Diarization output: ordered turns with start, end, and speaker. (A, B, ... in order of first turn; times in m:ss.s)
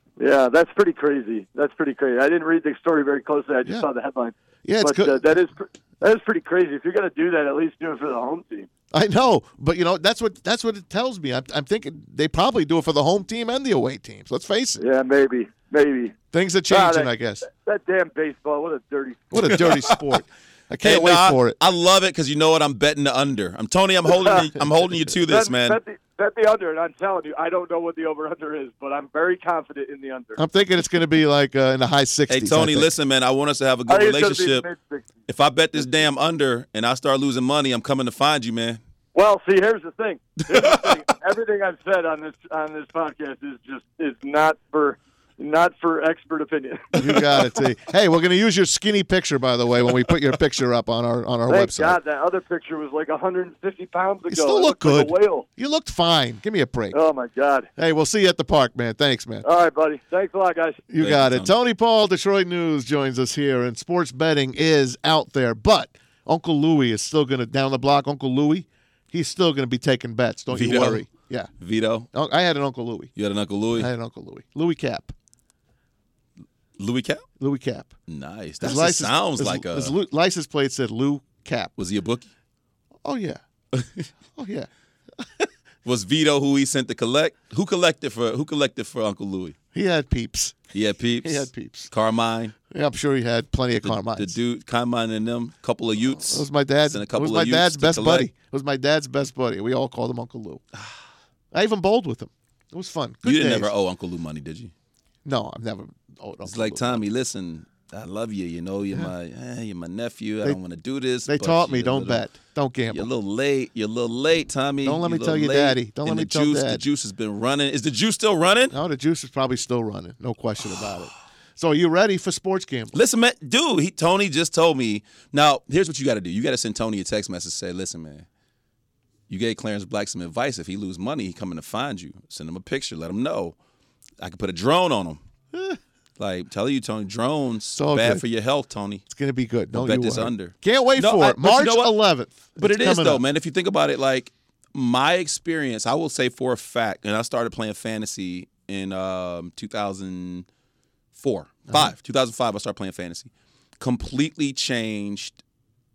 0:00.2-0:08.7 A
0:04.6-0:05.3 B
0:08.9-0:14.8 B
0:14.8-0:16.1 A
0:16.3-0:17.4 B
0:16.7-0:19.6 A
0:19.3-0:21.6 B
0:19.6-0:19.9 C
0:20.8-0:25.8 C
0:25.3-0:30.4 A
0:30.4-0:32.9 B
0:32.3-0:34.6 C
0:33.9-0:35.1 A
0:35.3-0:38.8 C
0:39.1-0:47.0 A
0:40.5-0:40.8 C
0:46.9-0:52.0 B
0:51.5-0:55.4 A
0:54.3-0:57.0 B
0:56.9-0:57.7 A
0:57.8-0:59.4 B
0:59.4-1:00.8 A
1:00.9-1:11.5 B
1:01.0-1:01.5 C
1:10.5-1:11.1 C
1:11.6-1:12.1 C
1:12.1-1:13.1 B
1:13.2-1:13.9 C
1:13.7-1:15.1 B
1:16.8-1:17.2 C
1:17.4-1:17.9 B
1:18.1-1:19.9 C
1:18.6-1:21.7 B
1:21.8-1:22.3 C
1:23.0-1:23.4 B
1:23.7-1:24.0 C
1:24.3-1:25.4 B
1:25.8-1:29.6 C
1:29.7-1:30.7 B
1:30.7-1:32.5 C
1:31.2-1:31.9 B
1:32.7-1:34.4 B
1:33.8-1:38.3 C
1:36.2-1:40.6 B
1:41.5-1:43.7 B
1:43.2-1:44.7 C
1:45.2-1:47.0 B
1:46.4-1:52.2 C
1:51.3-1:53.1 B
1:52.9-1:58.8 C
1:54.8-1:56.8 B
1:58.7-2:03.0 B
2:02.9-2:08.2 C
2:09.3-2:13.5 C
2:14.2-2:15.2 C
2:16.2-2:19.0 C
2:17.7-2:18.2 B
2:19.1-2:23.2 B
2:19.7-2:21.9 C
2:22.6-2:30.4 C
2:31.1-2:35.4 C
2:31.7-2:31.9 B